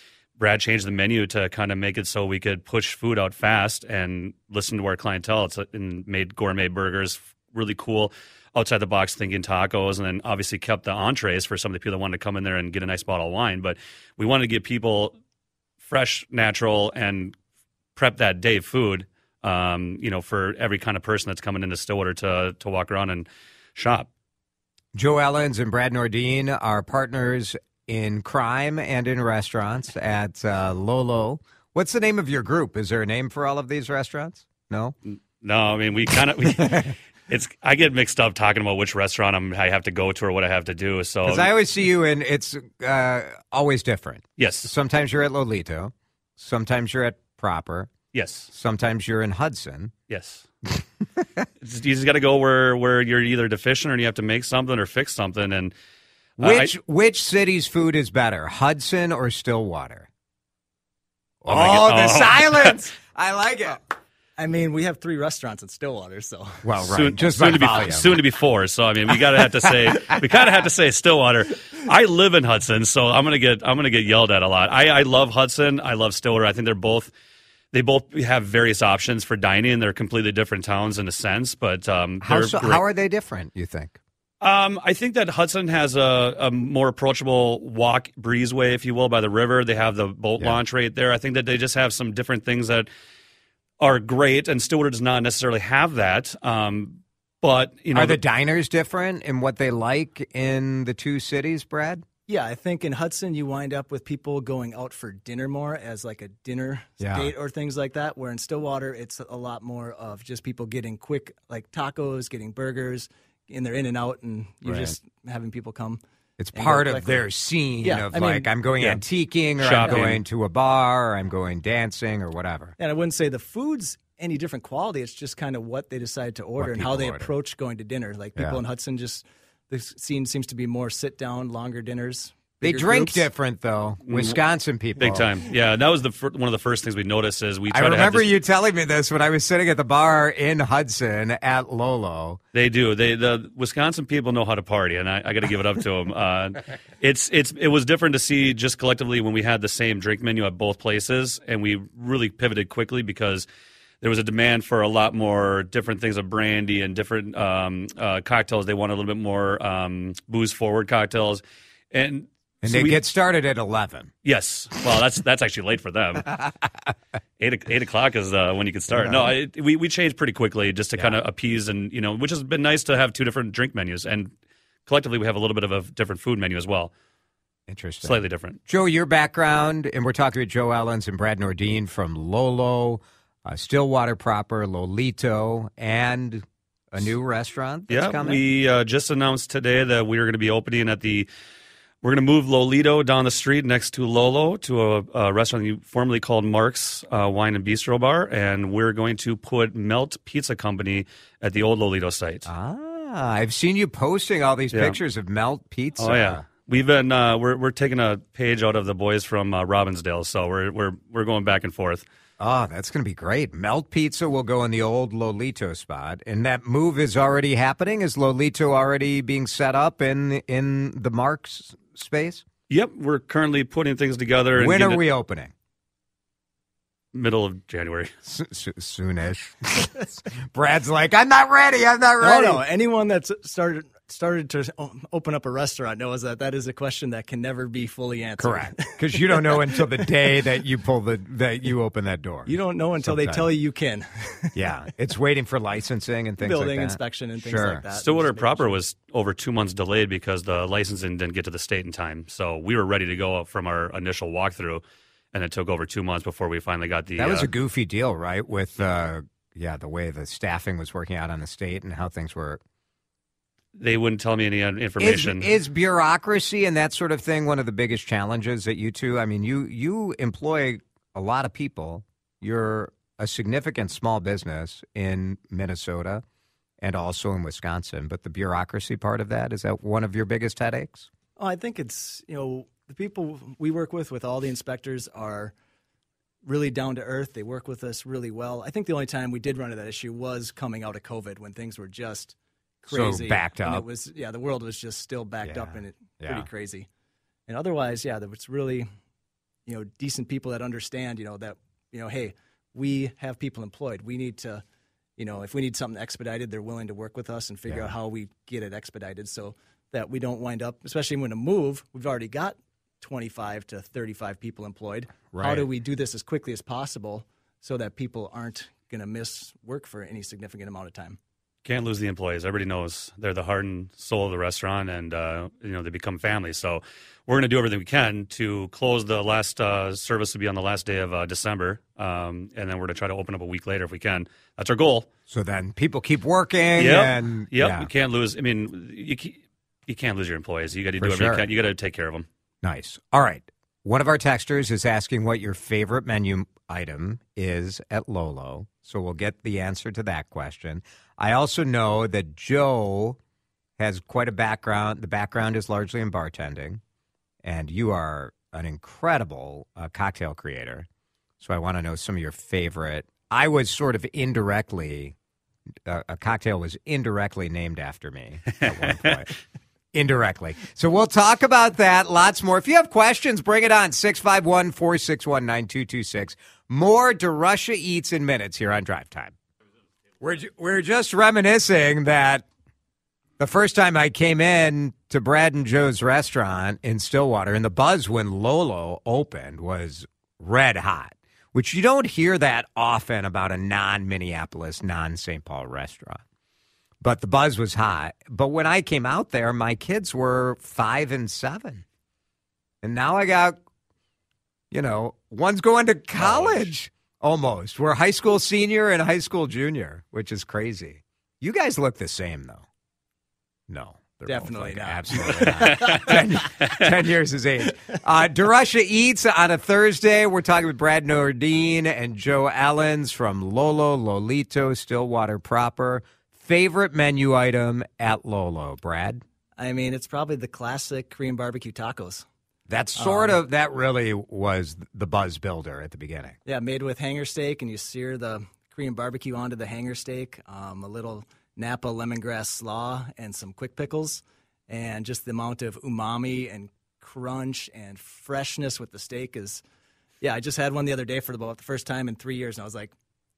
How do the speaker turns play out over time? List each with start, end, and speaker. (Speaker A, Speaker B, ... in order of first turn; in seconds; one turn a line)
Speaker A: 0.4-15.2
Speaker A: 15.8-17.3
Speaker A: 17.9-24.1
Speaker B: 24.9-35.0
Speaker A: 35.4-41.5
Speaker B: 36.6-36.9
Speaker B: 41.2-47.9
Speaker A: 44.4-44.7
Speaker A: 48.1-48.5
Speaker B: 48.5-49.9
Speaker A: 50.1-50.5
Speaker B: 50.7-51.5
Speaker A: 51.6-55.7
Speaker A: 56.4-56.7
Speaker B: 56.4-60.1
Speaker B: 61.4-63.8
Speaker A: 61.5-62.9
Speaker C: 64.4-66.7
Speaker B: 66.6-68.2
Speaker A: 66.8-77.1
Speaker A: 77.7-82.8
Speaker B: 82.2-84.0
Speaker A: 84.4-92.9
Speaker A: 93.8-98.2
Speaker B: 97.9-102.0
Speaker C: 102.3-116.0
Speaker B: 107.0-107.3
Speaker B: 114.7-115.0
Speaker B: 116.4-122.8
Speaker C: 116.5-117.2
Speaker C: 117.8-118.5
Speaker A: 119.6-120.2
Speaker C: 119.8-120.1
Speaker C: 122.8-133.3
Speaker B: 126.6-127.3
Speaker B: 128.4-128.6
Speaker B: 132.6-135.3
Speaker A: 134.1-134.4
Speaker A: 135.0-138.3
Speaker B: 137.7-142.4
Speaker A: 142.5-153.5
Speaker A: 154.0-163.0
Speaker B: 162.6-164.1
Speaker A: 164.2-166.4
Speaker A: 167.4-174.3
Speaker B: 168.9-169.3
Speaker A: 174.9-176.9
Speaker B: 177.7-188.4
Speaker A: 178.0-178.6
Speaker A: 187.9-191.3
Speaker A: 192.0-202.5
Speaker B: 202.5-206.4
Speaker A: 206.0-212.0
Speaker B: 212.4-222.4
Speaker A: 222.7-225.0
Speaker B: 224.6-225.5
Speaker A: 227.1-228.1
Speaker B: 228.2-232.6
Speaker C: 232.2-240.2
Speaker B: 238.4-243.5
Speaker C: 242.5-244.6
Speaker B: 244.6-247.8
Speaker C: 246.4-248.8
Speaker A: 247.9-257.5
Speaker B: 257.2-262.6
Speaker A: 263.8-265.5
Speaker B: 265.0-276.2
Speaker B: 276.8-281.1
Speaker C: 281.4-285.6
Speaker C: 286.4-296.9
Speaker B: 292.9-293.9
Speaker B: 295.4-296.5
Speaker C: 297.5-298.9
Speaker C: 299.7-304.6
Speaker C: 305.2-321.2
Speaker B: 315.3-315.7
Speaker A: 321.6-335.1
Speaker B: 335.3-337.9
Speaker A: 336.8-342.3
Speaker B: 341.0-341.4
Speaker B: 342.6-353.2
Speaker B: 353.8-356.8
Speaker B: 357.4-360.9
Speaker B: 361.4-365.1
Speaker B: 365.9-369.3
Speaker B: 369.9-379.4
Speaker B: 380.2-382.4
Speaker B: 383.4-396.2
Speaker B: 397.0-401.8
Speaker B: 402.8-403.6
Speaker B: 404.7-412.6
Speaker A: 406.2-406.7
Speaker B: 413.7-429.2
Speaker C: 414.3-416.3
Speaker A: 415.7-416.9
Speaker C: 429.6-432.3
Speaker B: 432.7-436.4
Speaker C: 433.0-433.4
Speaker C: 436.5-449.6
Speaker C: 450.2-452.9